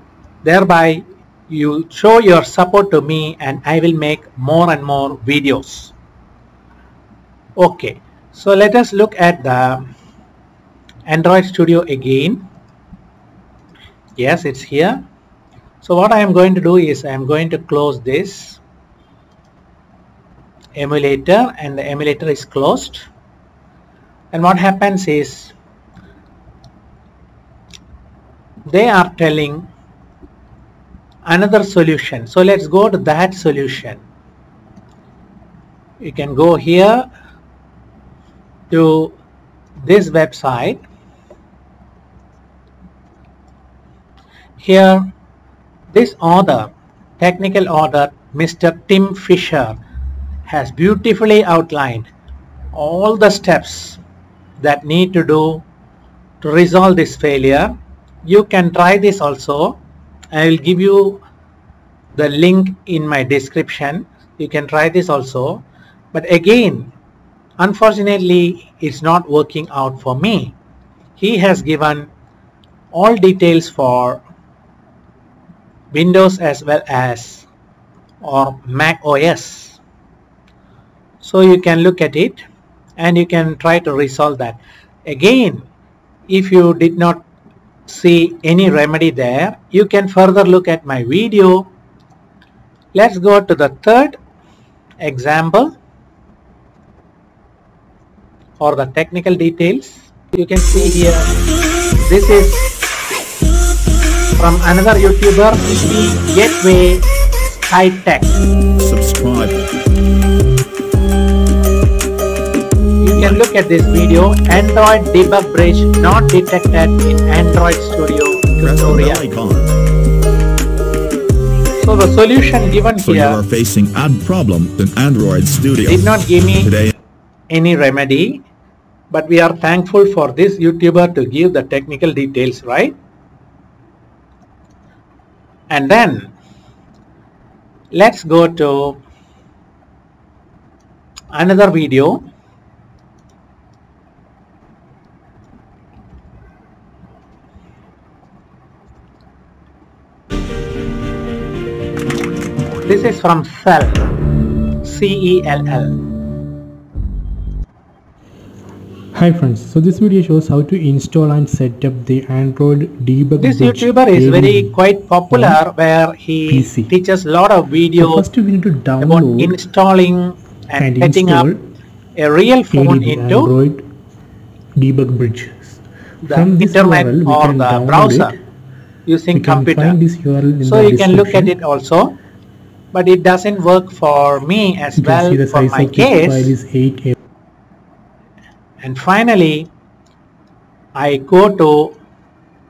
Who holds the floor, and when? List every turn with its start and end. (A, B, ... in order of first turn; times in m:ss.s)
0:00.4-0:05.9 A
0:07.6-0:09.9 A
0:11.1-0:12.5 A
0:14.2-0:15.0 A
0:15.8-0:18.6 A
0:20.8-0:23.1 A
0:24.3-0:25.6 A
0:28.7-0:29.7 A
0:31.2-0:34.0 A
0:36.0-0:37.1 A
0:38.7-0:39.2 A
0:39.8-0:40.8 A
0:44.6-0:45.1 A
0:45.9-0:49.8 A
0:50.5-0:52.1 A
0:52.7-0:54.0 A
0:54.6-0:55.6 A
0:56.4-0:57.7 A
0:58.2-0:59.8 A
1:00.3-1:01.2 A
1:02.2-1:06.9 A
1:07.6-1:10.6 A
1:11.2-1:12.1 A
1:12.9-1:14.2 A
1:15.9-1:17.5 A
1:18.2-1:19.8 A
1:21.2-1:22.4 A
1:23.0-1:25.7 A
1:26.3-1:27.3 A
1:27.9-1:31.7 A
1:32.9-1:34.2 A
1:35.0-1:35.7 A
1:38.6-1:41.3 A
1:42.0-1:42.7 A
1:44.4-1:47.0 A
1:47.7-1:48.4 A
1:48.8-1:49.6 B
1:53.0-1:59.2 A
1:58.6-1:59.8 B
2:01.8-2:03.4 A
2:03.0-2:06.9 B
2:05.9-2:06.7 A
2:07.5-2:08.5 A
2:09.1-2:13.0 A
2:15.7-2:16.3 A
2:17.9-2:19.0 A
2:21.3-2:22.2 A
2:32.8-2:34.1 A
2:34.8-2:36.0 A
2:39.1-2:44.8 C
2:43.4-2:48.3 A
2:45.3-2:45.6 C
2:46.5-2:46.9 C
2:48.0-2:49.6 C
2:49.0-2:51.5 A
2:50.8-2:51.7 C
2:52.2-2:53.5 A
2:52.7-2:53.9 C
2:54.8-2:58.4 C
2:56.2-2:58.4 A
2:59.1-3:00.0 A
2:59.3-3:01.6 C
3:00.6-3:02.2 A
3:02.9-3:06.6 A
3:05.0-3:07.2 C
3:08.8-3:09.7 A
3:11.0-3:12.0 A